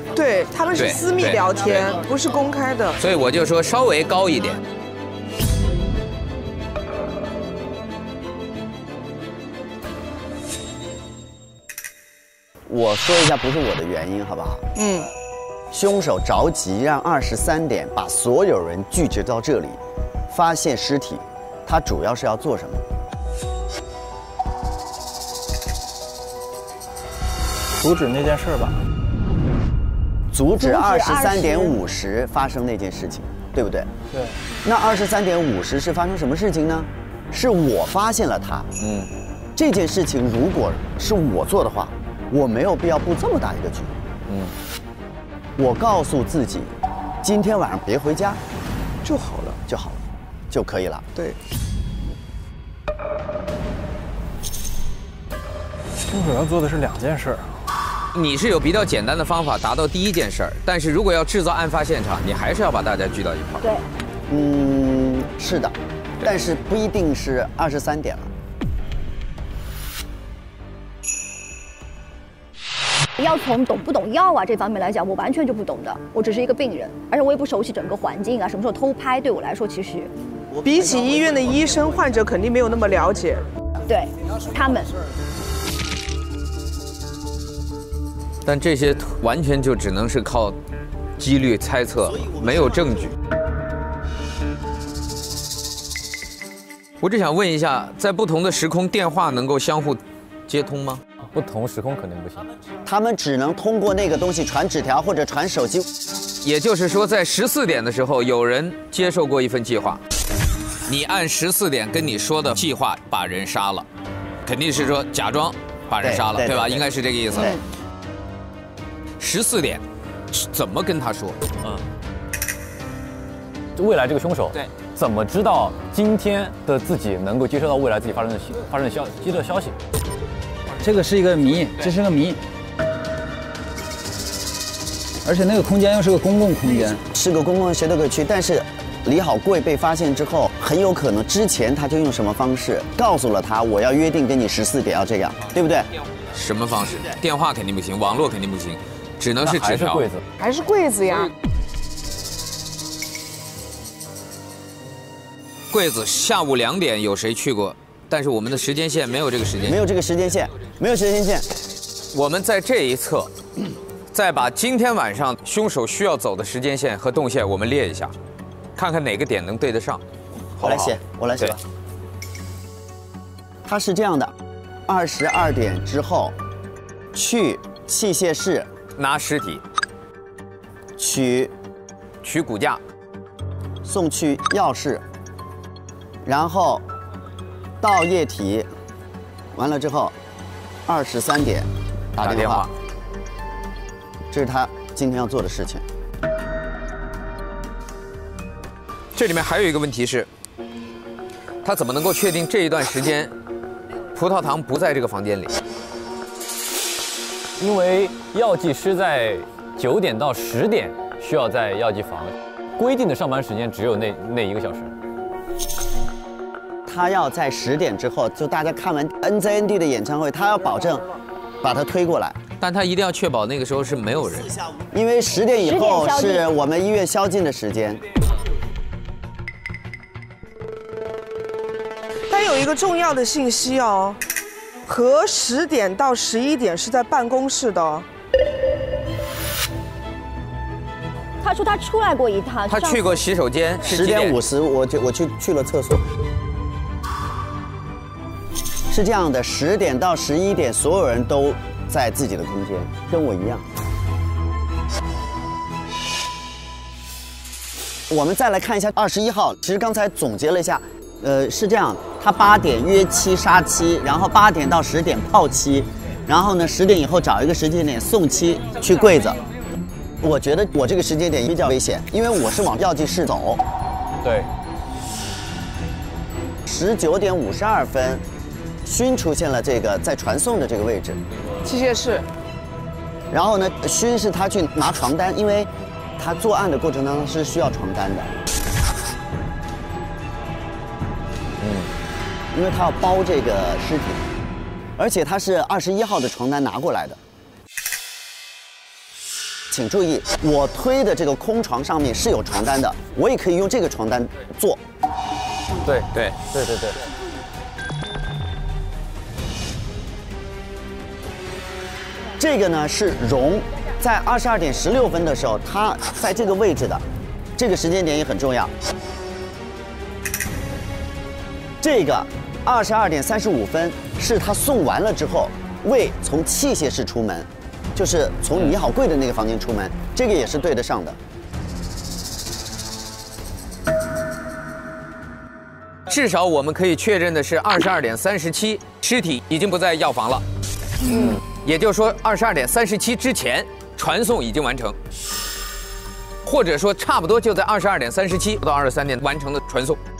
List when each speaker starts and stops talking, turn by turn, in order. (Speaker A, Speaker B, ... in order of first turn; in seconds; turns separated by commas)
Speaker A: 0.1-3.0, Speaker B: 0.8-1.9, Speaker B: 3.0-4.6, Speaker C: 12.7-14.6, Speaker A: 14.8-15.1, Speaker C: 15.7-22.9, Speaker D: 27.8-28.8, Speaker C: 30.3-33.9, Speaker E: 30.6-31.8, Speaker D: 34.1-34.4, Speaker C: 34.6-38.7, Speaker B: 38.8-39.1, Speaker C: 39.6-44.0, Speaker C: 45.6-48.4, Speaker A: 49.0-49.6, Speaker C: 49.7-51.1, Speaker D: 56.1-57.6, Speaker B: 58.1-63.7, Speaker C: 64.3-68.3, Speaker E: 73.2-80.1, Speaker C: 80.2-82.2, Speaker A: 80.6-83.5, Speaker E: 83.9-84.9, Speaker B: 88.5-90.6, Speaker B: 91.2-93.2, Speaker C: 92.2-92.7, Speaker B: 97.0-101.0, Speaker F: 101.3-102.5, Speaker C: 102.9-105.9, Speaker B: 106.4-110.0, Speaker B: 110.9-113.9, Speaker B: 114.5-117.6, Speaker C: 116.0-117.6, Speaker B: 119.2-121.4, Speaker F: 123.8-129.8, Speaker G: 130.8-132.4, Speaker G: 135.2-137.0, Speaker C: 137.0-145.9, Speaker B: 146.3-150.1, Speaker F: 149.4-150.2, Speaker A: 150.4-151.3, Speaker B: 155.7-159.8, Speaker C: 159.6-161.5, Speaker B: 162.1-163.3, Speaker B: 164.1-168.2, Speaker B: 168.8-170.0, Speaker B: 170.6-171.0, Speaker C: 170.6-171.6, Speaker C: 173.7-174.3, Speaker C: 174.9-176.4, Speaker C: 177.1-178.7, Speaker B: 179.0-179.6, Speaker C: 181.0-181.5, Speaker B: 182.2-182.8, Speaker C: 183.8-185.0, Speaker C: 186.2-186.8, Speaker C: 187.8-188.7, Speaker C: 189.6-190.2, Speaker C: 190.9-192.7, Speaker B: 192.2-192.7, Speaker C: 194.3-195.8, Speaker B: 199.2-200.3, Speaker B: 201.6-203.3, Speaker B: 204.2-205.6, Speaker F: 207.6-214.9, Speaker C: 216.9-221.1, Speaker C: 221.6-222.4, Speaker B: 222.6-224.6, Speaker C: 224.7-228.1, Speaker E: 225.6-226.4, Speaker A: 232.3-234.2, Speaker A: 234.9-238.1, Speaker E: 241.4-243.2, Speaker B: 242.7-244.4, Speaker C: 243.8-246.1, Speaker C: 248.9-253.7, Speaker C: 258.1-269.4, Speaker C: 270.2-273.6, Speaker F: 274.2-274.5, Speaker C: 276.7-278.2, Speaker C: 278.8-281.2, Speaker A: 281.6-282.3, Speaker C: 283.3-288.4, Speaker F: 291.6-291.9, Speaker C: 292.5-294.3, Speaker C: 295.0-297.2, Speaker C: 299.7-304.8, Speaker F: 305.8-307.0, Speaker C: 312.4-317.0, Speaker C: 317.6-318.8, Speaker C: 321.8-331.2, Speaker B: 336.1-340.4, Speaker B: 341.1-345.0, Speaker B: 346.4-350.0